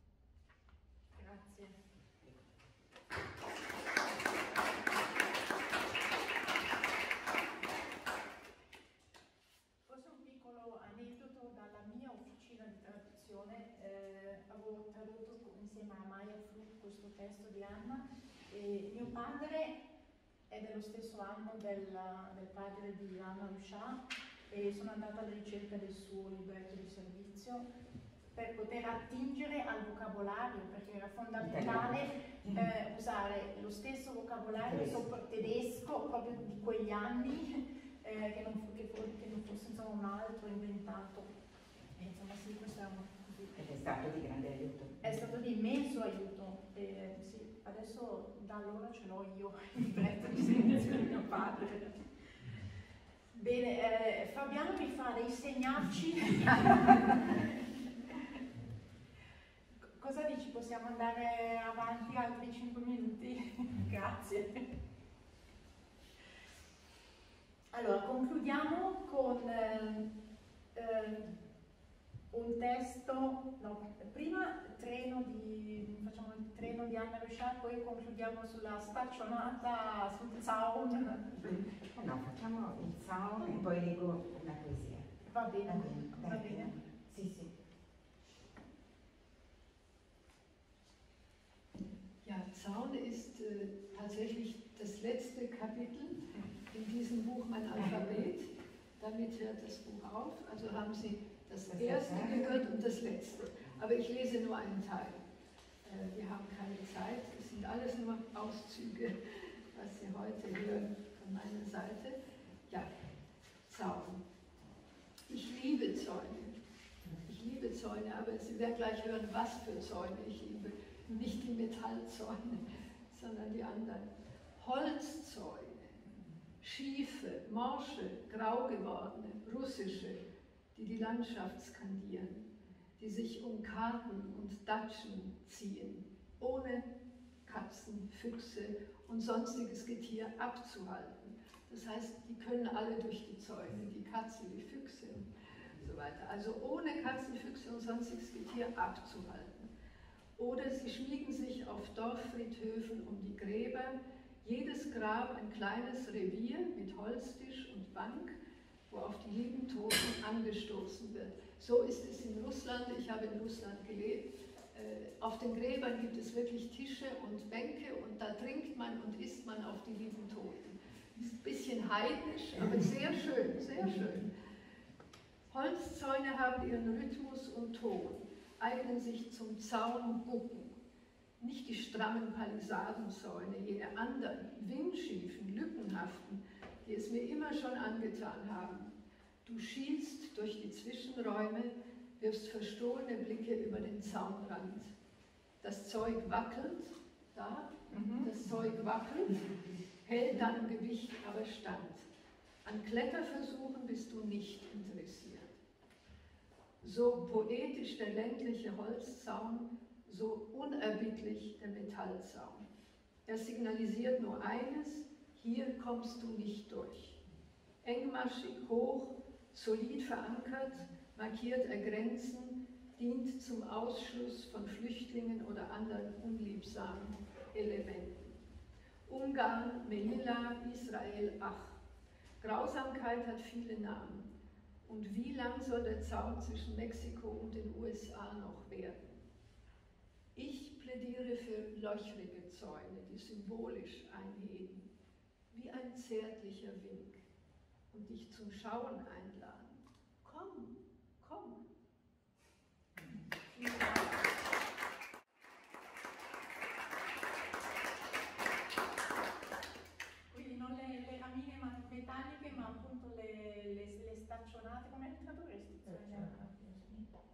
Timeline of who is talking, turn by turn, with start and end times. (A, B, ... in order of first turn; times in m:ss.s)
0:01.2-0:01.8 A
0:09.9-0:19.8 A
0:20.5-0:27.7 A
0:28.4-0:41.3 A
0:31.4-0:32.6 B
0:34.6-0:35.1 B
0:42.0-0:43.5 A
0:43.6-0:45.0 B
0:45.0-0:52.0 A
0:53.4-0:57.4 A
1:00.0-1:04.7 A
1:07.7-1:10.1 A
1:10.7-1:11.3 A
1:12.3-1:21.7 A
1:21.7-1:25.1 B
1:25.3-1:26.7 A
1:25.7-1:27.5 B
1:32.2-1:45.2 C
1:41.7-1:42.4 B
1:45.8-1:52.9 C
1:53.6-1:54.2 C
1:55.3-1:56.6 C
1:57.2-2:06.0 C
2:06.6-2:10.2 C
2:10.8-2:12.5 C
2:13.0-2:16.9 C
2:17.4-2:29.7 C
2:30.4-2:38.4 C
2:38.9-2:54.3 C
2:55.5-3:00.8 C
3:01.4-3:08.9 C
3:09.4-3:14.9 C
3:15.6-3:22.1 C
3:17.9-3:18.3 A
3:22.6-3:25.6 C
3:26.8-3:32.7 C
3:33.3-3:37.2 C
3:37.8-3:48.4 C
3:49.1-3:51.8 C
3:52.4-3:54.3 C
3:54.8-3:59.2 C
4:00.4-4:04.9 C
4:05.5-4:07.2 C
4:07.9-4:11.6 C
4:13.5-4:14.1 A
4:20.3-4:27.1 A